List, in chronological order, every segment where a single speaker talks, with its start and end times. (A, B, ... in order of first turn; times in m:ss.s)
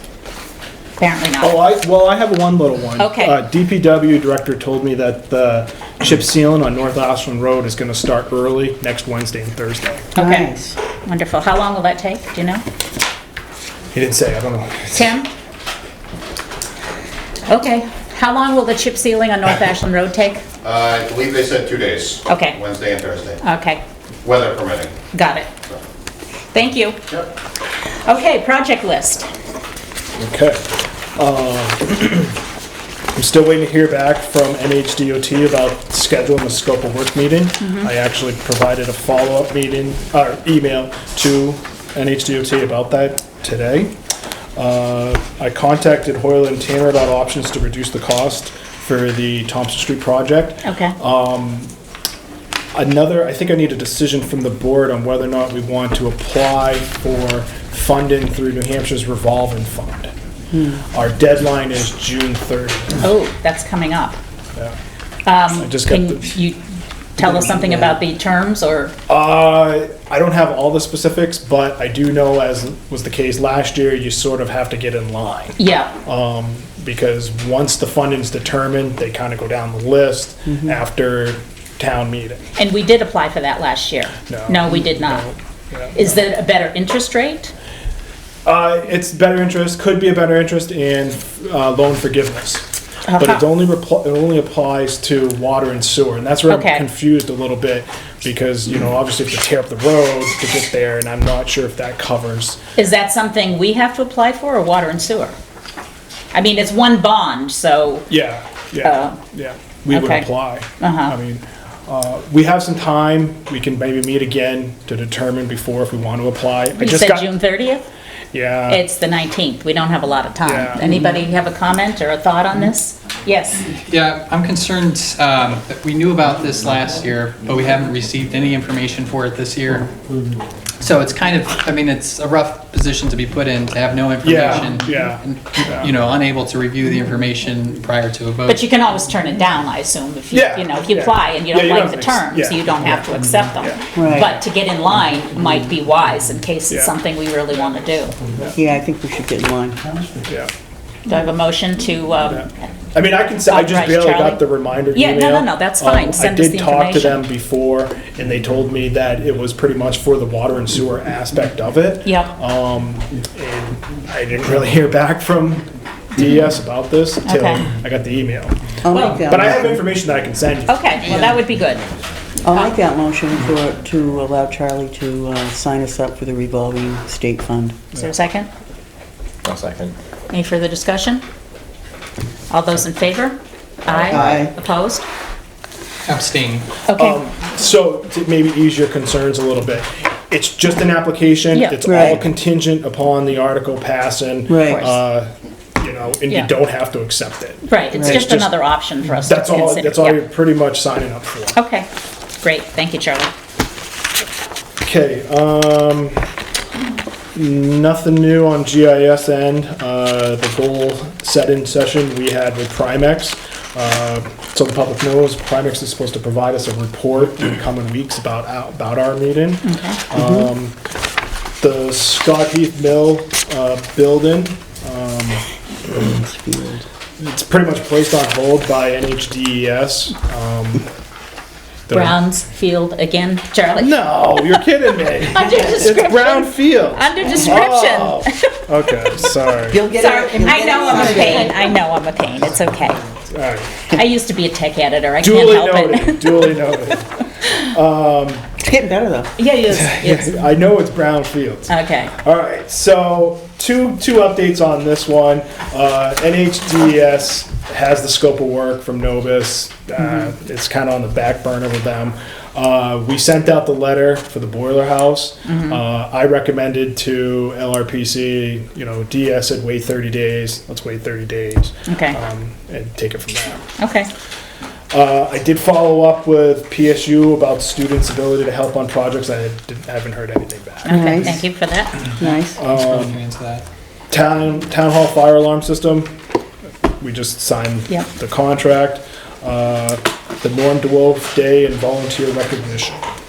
0:01.0-0:01.6 A
0:01.4-0:10.1 B
0:03.0-0:03.4 A
0:10.1-0:10.8 C
0:10.1-0:12.6 A
0:13.9-0:15.2 B
0:14.9-0:15.3 A
0:17.5-0:20.4 A
0:20.6-0:23.4 D
0:22.3-0:22.6 A
0:23.4-0:23.8 A
0:24.2-0:24.9 D
0:25.1-0:25.5 A
0:26.5-0:27.0 A
0:28.0-0:29.3 A
0:30.2-0:32.4 B
0:33.1-0:43.9 B
0:37.6-0:37.9 A
0:44.6-0:51.7 B
0:50.6-0:51.0 A
0:52.7-1:00.1 B
1:00.5-1:00.8 C
1:00.9-1:03.0 B
1:03.0-1:04.2 A
1:05.2-1:06.6 A
1:05.6-1:06.3 B
1:07.2-1:08.9 A
1:09.1-1:22.4 B
1:15.6-1:15.9 A
1:22.6-1:25.2 A
1:24.3-1:26.0 B
1:25.9-1:27.5 A
1:28.4-1:42.6 B
1:33.0-1:33.4 A
1:36.5-1:36.8 A
1:42.8-1:45.4 A
1:46.3-1:48.1 A
1:48.1-1:57.3 B
1:48.8-1:49.2 A
1:49.9-1:50.3 A
1:50.8-1:51.2 A
1:56.8-1:57.8 A
1:58.3-1:58.8 B
1:58.7-2:03.7 A
2:00.4-2:00.8 B
2:03.9-2:09.9 E
2:10.8-2:18.6 E
2:14.2-2:15.9 B
2:18.5-2:28.1 A
2:20.3-2:23.1 B
2:23.9-2:24.3 C
2:28.5-2:30.2 C
2:30.3-2:30.5 B
2:31.0-2:32.7 A
2:32.3-2:50.8 B
2:33.4-2:37.2 A
2:42.0-2:42.3 A
2:47.2-2:47.7 A
2:48.8-2:49.9 C
2:48.9-2:49.2 A
2:50.6-2:51.9 A
2:52.4-2:57.8 C
2:57.9-2:58.5 A
3:00.3-3:01.2 A
3:02.5-3:05.0 A
3:04.0-3:04.5 C
3:06.1-3:06.7 E
3:06.9-3:07.2 A
3:06.9-3:18.6 B
3:11.5-3:11.8 A
3:11.8-3:12.2 C
3:14.5-3:14.9 C
3:17.7-3:20.2 A
3:18.0-3:18.3 C
3:19.2-3:21.6 B
3:21.5-3:21.9 A
3:22.4-3:23.3 A
3:24.8-3:26.3 B
3:27.3-3:40.8 B
3:39.6-3:40.0 A
3:40.1-3:40.5 C
3:41.6-3:45.4 B
3:45.9-3:46.8 C
3:47.2-3:50.8 B
3:51.9-3:52.2 B
3:51.9-3:54.6 A
3:53.7-3:59.8 B
3:55.3-3:58.6 A
3:57.2-3:57.6 C
3:59.7-4:01.8 C
3:59.9-4:03.0 A
4:03.3-4:03.9 B
4:03.9-4:06.7 A
4:05.2-4:08.5 B
4:08.6-4:09.3 C
4:09.4-4:10.3 A
4:09.7-4:33.6 B
4:11.7-4:12.1 A
4:20.0-4:20.3 A
4:25.4-4:25.8 A
4:31.8-4:32.2 A
4:33.8-4:34.1 A
4:34.9-4:41.2 B
4:40.8-4:42.0 A
4:40.9-4:41.4 C
4:42.2-4:42.6 C
4:42.5-4:43.2 B
4:42.6-4:43.6 E
4:44.1-4:46.1 B
4:47.0-4:53.0 B